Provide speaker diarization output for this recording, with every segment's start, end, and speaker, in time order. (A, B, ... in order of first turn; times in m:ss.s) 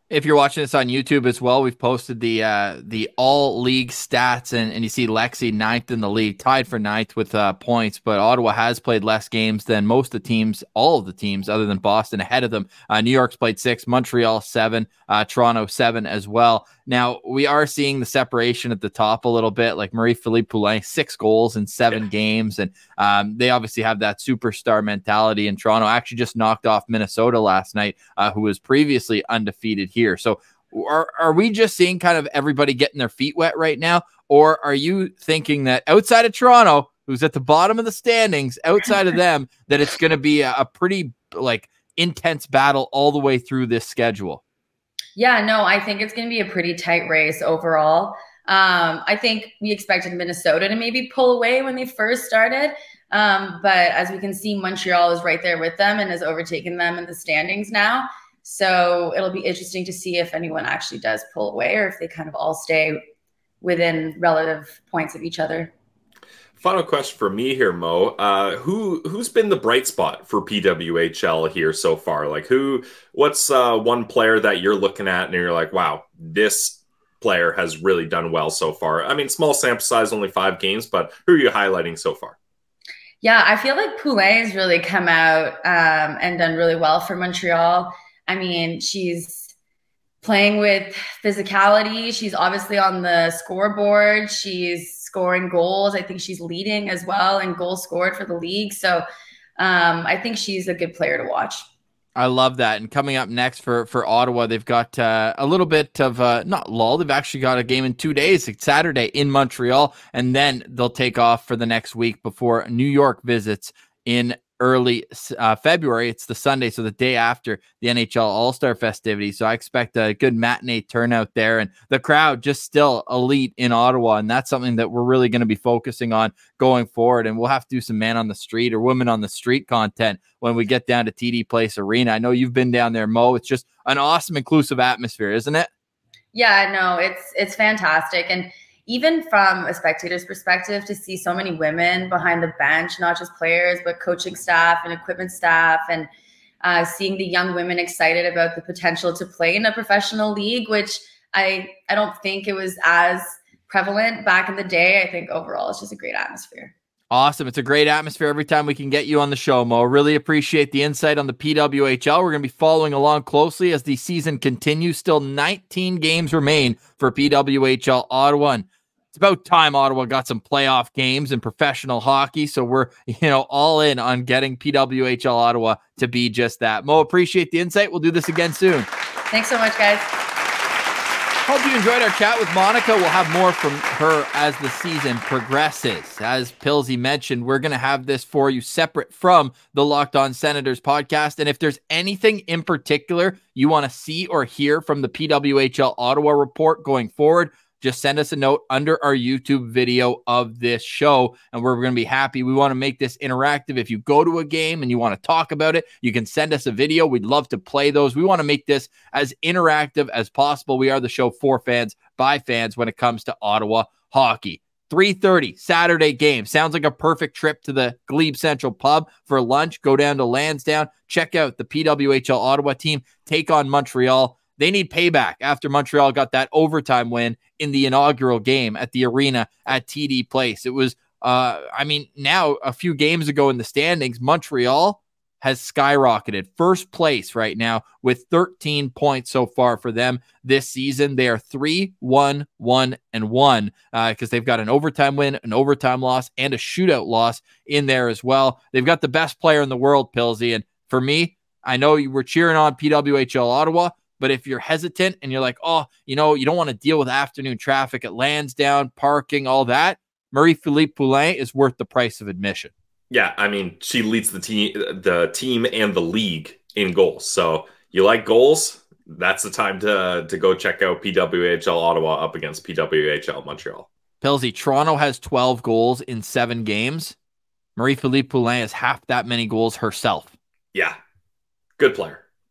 0:00.1-0:44.4 A
0:45.1-1:03.0 B
1:03.6-1:05.7 B
1:06.6-1:22.4 C
1:23.2-1:29.5 B
1:30.2-1:39.0 B
1:39.6-1:41.6 B
1:42.2-2:15.7 A
2:16.3-2:26.1 B
2:26.6-2:36.7 B
2:37.1-2:58.9 A
2:59.3-3:00.1 B
3:01.4-4:22.7 A
4:23.1-4:33.9 C
4:34.2-4:37.2 A
4:37.8-4:40.3 A
4:41.8-4:42.2 C